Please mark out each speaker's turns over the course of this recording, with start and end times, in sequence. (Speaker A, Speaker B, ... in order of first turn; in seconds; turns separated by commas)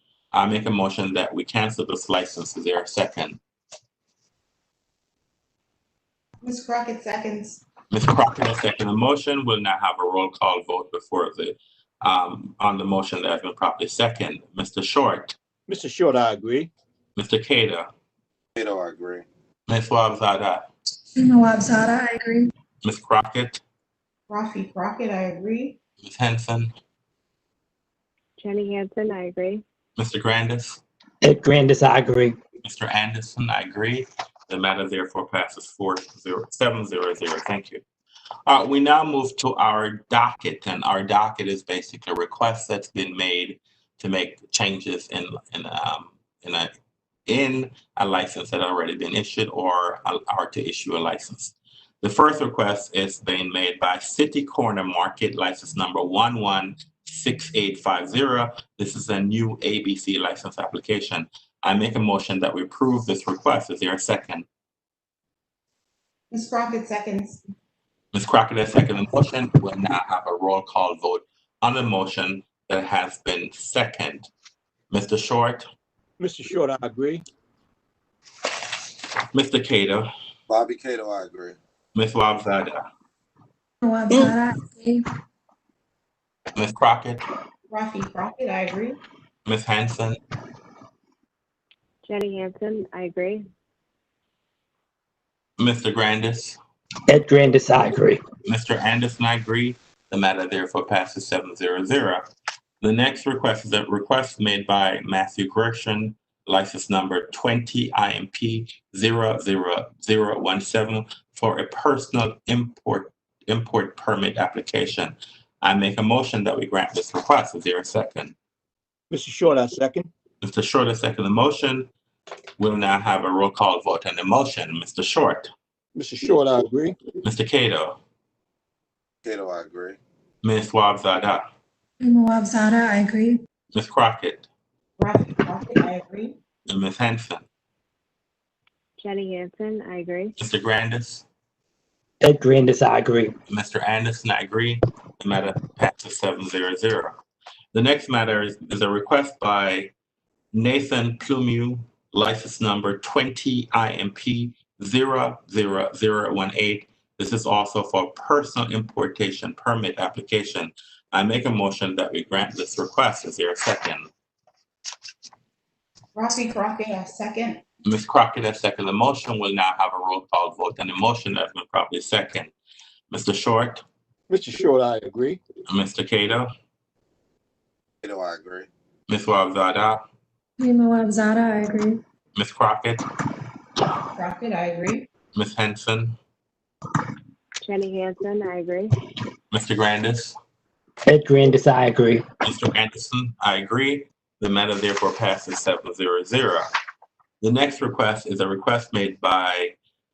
Speaker A: 0.3-3.4, Speaker B: 6.4-7.6, Speaker A: 7.9-15.4, Speaker C: 15.7-16.7, Speaker A: 17.2-17.9, Speaker D: 18.6-19.2, Speaker A: 19.7-20.7, Speaker E: 21.2-22.5, Speaker A: 22.8-23.6, Speaker B: 24.3-25.8, Speaker A: 26.0-26.7, Speaker F: 28.4-29.6, Speaker A: 30.0-30.8, Speaker G: 31.2-32.4, Speaker A: 32.6-37.8, Speaker A: 38.5-46.7, Speaker A: 47.3-64.5, Speaker B: 66.3-67.4, Speaker A: 68.1-74.3, Speaker A: 74.9-75.7, Speaker C: 76.2-77.2, Speaker A: 79.3-80.1, Speaker D: 80.5-81.6, Speaker A: 82.0-82.8, Speaker E: 83.8-85.0, Speaker A: 86.5-87.2, Speaker B: 87.7-89.0, Speaker A: 89.5-90.2, Speaker F: 92.0-93.4, Speaker A: 95.6-96.6, Speaker G: 97.1-98.2, Speaker A: 98.5-102.2, Speaker A: 102.8-118.3, Speaker C: 119.1-120.1, Speaker A: 120.4-121.9, Speaker A: 122.6-125.5, Speaker C: 126.0-127.0, Speaker A: 127.2-128.0, Speaker D: 129.2-130.0, Speaker A: 130.4-131.4, Speaker E: 132.0-133.4, Speaker A: 133.7-134.5, Speaker B: 135.0-136.4, Speaker A: 136.7-137.4, Speaker F: 139.0-140.3, Speaker A: 140.4-141.3, Speaker G: 142.2-143.4, Speaker A: 143.5-147.2, Speaker A: 147.7-149.9, Speaker A: 150.5-164.1, Speaker B: 166.2-167.6, Speaker A: 167.8-172.5, Speaker A: 173.1-173.8, Speaker C: 174.3-175.4, Speaker A: 175.7-176.5, Speaker D: 178.0-178.7, Speaker A: 179.1-180.0, Speaker E: 180.6-182.0, Speaker A: 182.4-183.0, Speaker B: 184.1-185.1, Speaker A: 185.3-186.2, Speaker F: 187.6-189.0, Speaker A: 189.5-190.4, Speaker G: 191.1-192.3, Speaker A: 192.4-196.7, Speaker A: 197.4-199.8